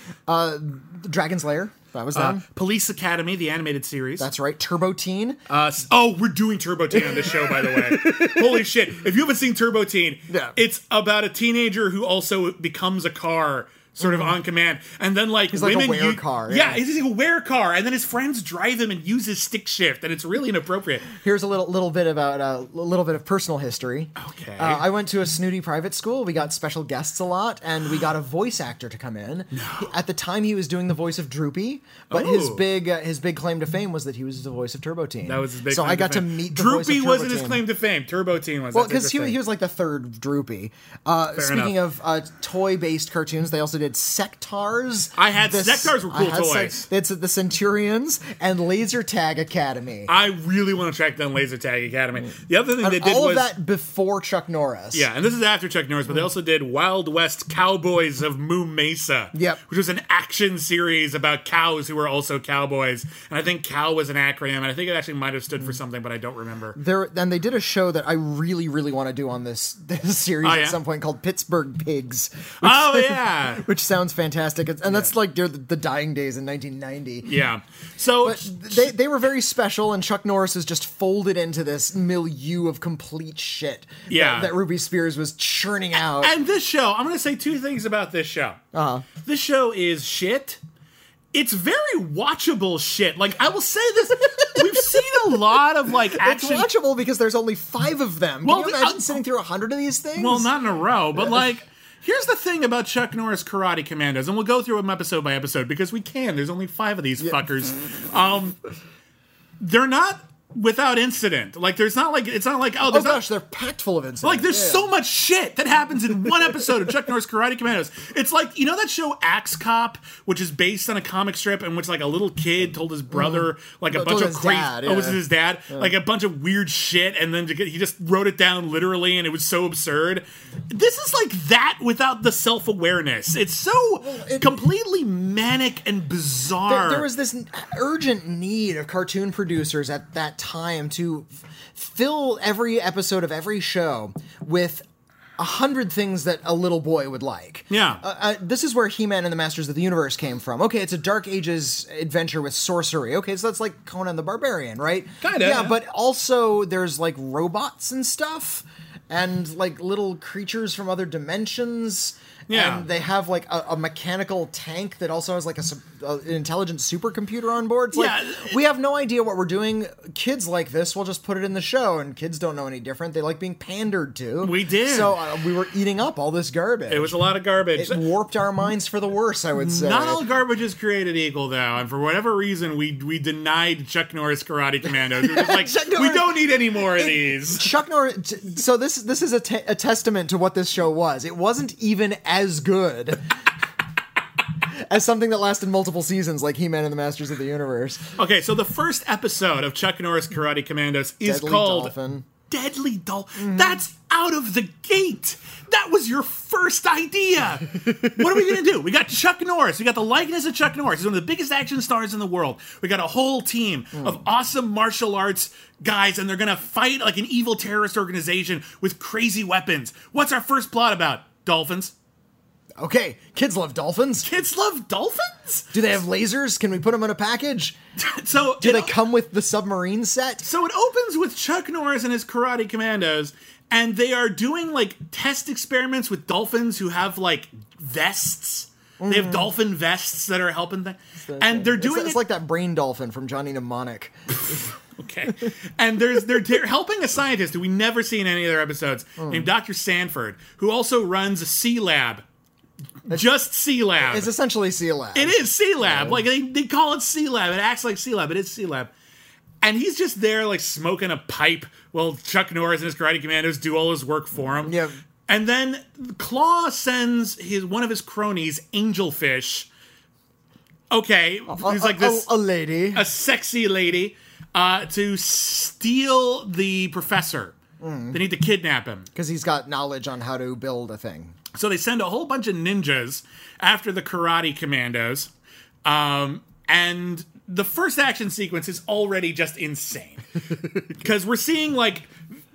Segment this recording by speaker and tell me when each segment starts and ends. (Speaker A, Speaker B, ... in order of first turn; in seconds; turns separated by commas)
Speaker A: 0.3-2.4, Speaker B: 2.1-4.3, Speaker A: 4.2-5.4, Speaker B: 5.5-21.1, Speaker A: 6.9-8.7, Speaker A: 10.3-10.5, Speaker A: 14.0-14.3, Speaker A: 15.5-16.8, Speaker A: 21.1-37.6, Speaker B: 24.2-24.9, Speaker B: 29.5-29.9, Speaker B: 32.1-32.6, Speaker B: 35.2-39.4, Speaker A: 38.7-50.1, Speaker B: 41.3-41.8, Speaker B: 45.1-46.9, Speaker B: 50.1-53.5, Speaker A: 52.8-55.1, Speaker B: 54.9-66.8, Speaker A: 59.3-59.6, Speaker A: 66.7-77.3, Speaker B: 70.4-70.8, Speaker B: 72.6-73.6, Speaker B: 77.2-78.8, Speaker A: 78.2-86.3, Speaker B: 84.1-84.5, Speaker B: 86.0-88.6, Speaker A: 88.7-89.0, Speaker B: 89.2-90.6, Speaker B: 91.3-96.7, Speaker A: 94.4-95.2, Speaker A: 96.1-100.5, Speaker B: 98.4-99.2, Speaker B: 100.1-108.6, Speaker B: 109.6-113.2, Speaker A: 112.8-114.9, Speaker B: 114.2-137.1, Speaker A: 123.1-125.9, Speaker A: 134.0-134.5, Speaker A: 136.7-144.8, Speaker A: 145.4-177.1, Speaker B: 147.7-148.0, Speaker B: 155.2-155.8, Speaker B: 162.5-162.8, Speaker B: 167.9-168.5, Speaker B: 174.4-175.2, Speaker B: 176.9-178.0, Speaker A: 177.7-180.2, Speaker B: 179.6-187.7, Speaker A: 185.0-193.3, Speaker A: 194.7-198.0, Speaker B: 198.2-201.9, Speaker A: 201.2-202.3, Speaker B: 202.4-221.9, Speaker A: 203.4-203.8, Speaker A: 222.8-224.3, Speaker B: 224.2-225.7, Speaker A: 225.7-227.8, Speaker B: 228.0-228.9, Speaker A: 228.6-230.4, Speaker B: 230.4-242.2, Speaker A: 239.0-239.5, Speaker A: 241.2-244.1, Speaker B: 244.4-252.2, Speaker B: 253.1-254.3, Speaker A: 254.0-256.2, Speaker B: 255.1-258.9, Speaker B: 259.6-269.7, Speaker A: 264.6-264.9, Speaker B: 270.9-272.3, Speaker A: 271.5-273.0, Speaker B: 272.9-277.6, Speaker A: 277.8-278.2, Speaker B: 278.1-279.1, Speaker A: 279.1-281.3, Speaker B: 281.5-285.3, Speaker B: 285.8-290.3, Speaker B: 290.8-292.1